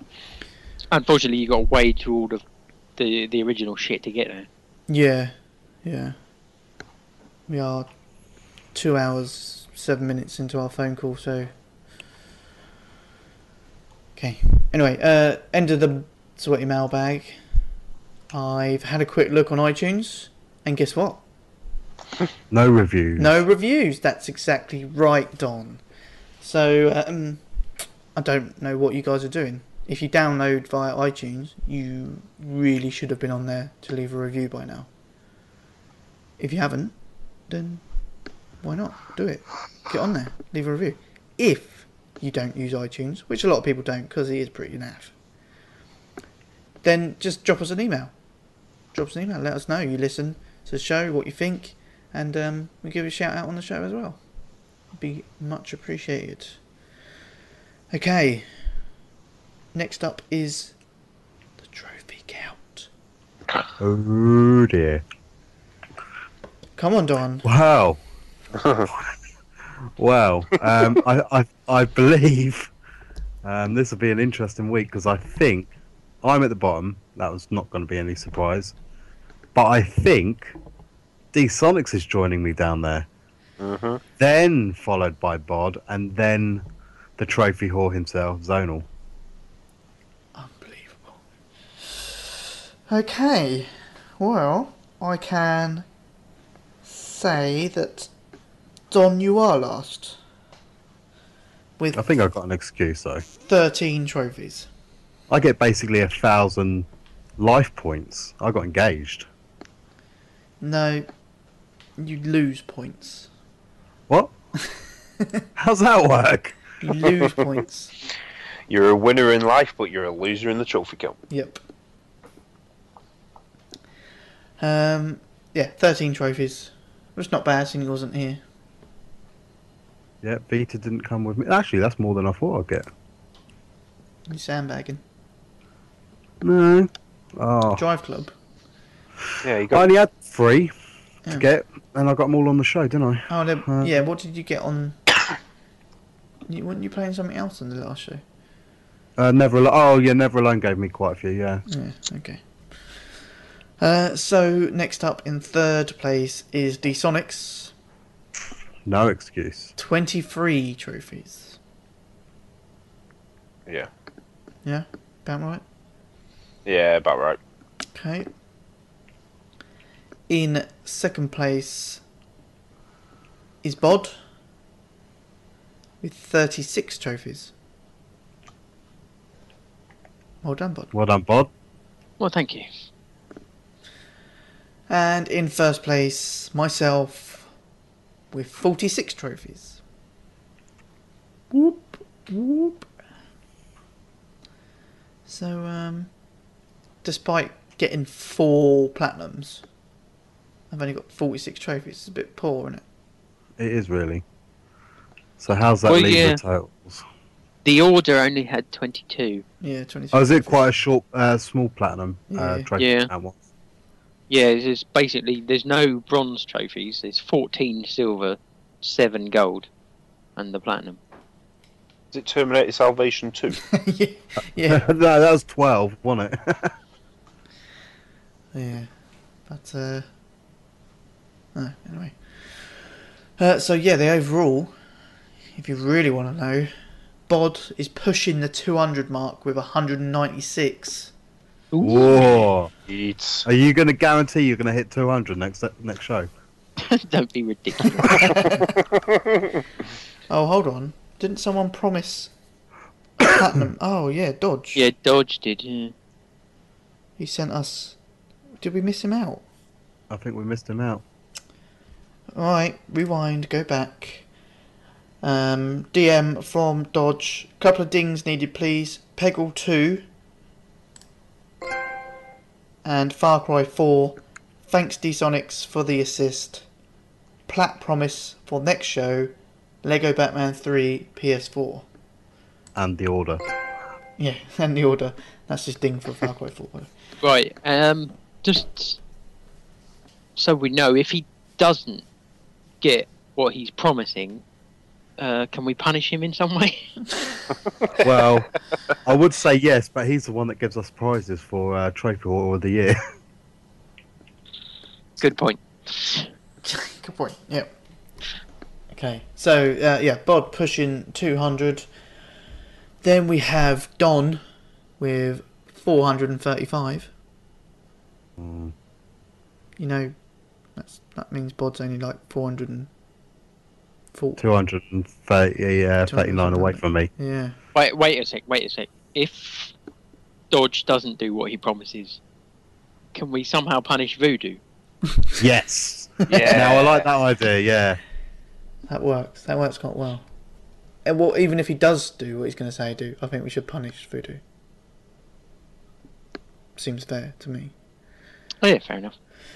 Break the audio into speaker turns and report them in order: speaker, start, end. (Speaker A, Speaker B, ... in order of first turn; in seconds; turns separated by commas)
Speaker A: 0.9-2.4, Speaker A: 3.0-4.5, Speaker B: 4.9-6.2, Speaker B: 7.5-7.9, Speaker B: 8.7-11.5, Speaker B: 14.2-17.4, Speaker B: 18.3-21.2, Speaker C: 22.5-23.3, Speaker B: 23.2-25.8, Speaker B: 26.4-27.4, Speaker B: 28.1-34.9, Speaker B: 36.4-37.0, Speaker B: 37.5-37.8, Speaker B: 38.6-45.1, Speaker B: 46.8-48.1, Speaker B: 48.9-54.3, Speaker B: 54.9-56.6, Speaker B: 57.9-58.7, Speaker B: 59.7-60.8, Speaker B: 61.6-62.9, Speaker C: 63.8-65.0, Speaker B: 66.8-67.5, Speaker C: 67.4-68.0, Speaker D: 68.6-68.9, Speaker C: 70.0-72.7, Speaker C: 73.4-75.7, Speaker C: 76.2-78.8, Speaker C: 79.5-80.6, Speaker C: 81.3-83.1, Speaker D: 83.6-84.0, Speaker C: 84.2-86.7, Speaker C: 87.2-88.9, Speaker B: 90.3-91.2, Speaker B: 91.8-92.2, Speaker B: 92.9-95.9, Speaker B: 96.9-98.1, Speaker B: 98.9-100.2, Speaker B: 101.8-102.1, Speaker C: 101.9-103.2, Speaker B: 103.5-104.7, Speaker C: 105.3-106.9, Speaker C: 107.4-109.3, Speaker B: 110.6-111.1, Speaker B: 112.0-113.3, Speaker B: 114.7-115.4, Speaker C: 115.6-116.6, Speaker B: 116.8-117.9, Speaker D: 118.7-121.2, Speaker B: 121.3-121.6, Speaker B: 124.6-128.4, Speaker C: 130.2-132.9, Speaker B: 134.3-135.0, Speaker C: 136.4-137.8, Speaker B: 137.8-138.3, Speaker D: 139.4-139.9, Speaker C: 139.7-140.7, Speaker C: 141.3-143.9, Speaker B: 143.3-145.0, Speaker B: 146.5-148.2, Speaker C: 149.2-151.6, Speaker B: 151.7-153.2, Speaker B: 153.8-157.7, Speaker C: 158.8-159.7, Speaker B: 159.8-161.6, Speaker B: 164.6-165.6, Speaker D: 166.7-167.4, Speaker B: 167.9-168.3, Speaker B: 170.3-172.0, Speaker B: 173.6-174.2, Speaker B: 176.0-177.5, Speaker B: 180.4-180.9, Speaker C: 180.9-181.5, Speaker A: 182.2-182.7, Speaker B: 184.9-187.5, Speaker B: 188.3-189.8, Speaker B: 191.5-192.9, Speaker B: 195.3-196.1, Speaker B: 197.0-199.7, Speaker B: 200.7-202.8, Speaker C: 203.6-204.2, Speaker C: 205.4-207.1, Speaker A: 205.9-206.4, Speaker A: 207.7-209.4, Speaker B: 209.6-210.6, Speaker C: 210.1-213.4, Speaker B: 212.3-212.7, Speaker A: 212.8-213.1, Speaker A: 214.3-219.7, Speaker A: 220.4-221.0, Speaker D: 222.1-223.6, Speaker B: 223.7-224.9, Speaker C: 224.7-226.7, Speaker B: 228.5-228.9, Speaker B: 229.4-230.1, Speaker B: 231.6-234.8, Speaker B: 235.6-236.7, Speaker B: 237.3-241.1, Speaker A: 241.7-242.2, Speaker C: 241.8-242.7, Speaker D: 242.1-243.5, Speaker C: 243.4-246.3, Speaker A: 246.8-248.4, Speaker B: 248.1-248.7, Speaker B: 250.3-252.3, Speaker B: 253.2-254.8, Speaker A: 254.8-255.9, Speaker B: 257.2-258.0, Speaker B: 258.6-259.4, Speaker C: 260.1-261.0, Speaker B: 262.4-264.3, Speaker B: 265.2-270.1, Speaker B: 272.8-276.7, Speaker B: 277.5-281.9, Speaker C: 282.8-283.4, Speaker B: 284.2-286.9, Speaker A: 287.2-289.0, Speaker A: 290.4-292.1, Speaker A: 292.8-294.4, Speaker A: 295.2-297.2, Speaker C: 298.0-298.5, Speaker C: 299.0-303.0, Speaker A: 305.2-306.3, Speaker B: 306.9-307.8, Speaker B: 308.9-311.9, Speaker B: 313.0-314.4, Speaker B: 315.0-317.1, Speaker C: 318.4-318.7, Speaker B: 319.8-320.1, Speaker B: 320.8-322.9, Speaker B: 324.1-324.4, Speaker C: 324.4-327.1, Speaker B: 326.1-327.6, Speaker A: 327.8-329.8, Speaker A: 330.5-332.2, Speaker A: 333.1-334.6, Speaker C: 335.4-338.0, Speaker A: 336.3-337.0, Speaker D: 336.3-337.0, Speaker B: 338.9-340.3, Speaker B: 341.1-344.4, Speaker B: 346.8-347.7, Speaker A: 348.6-349.1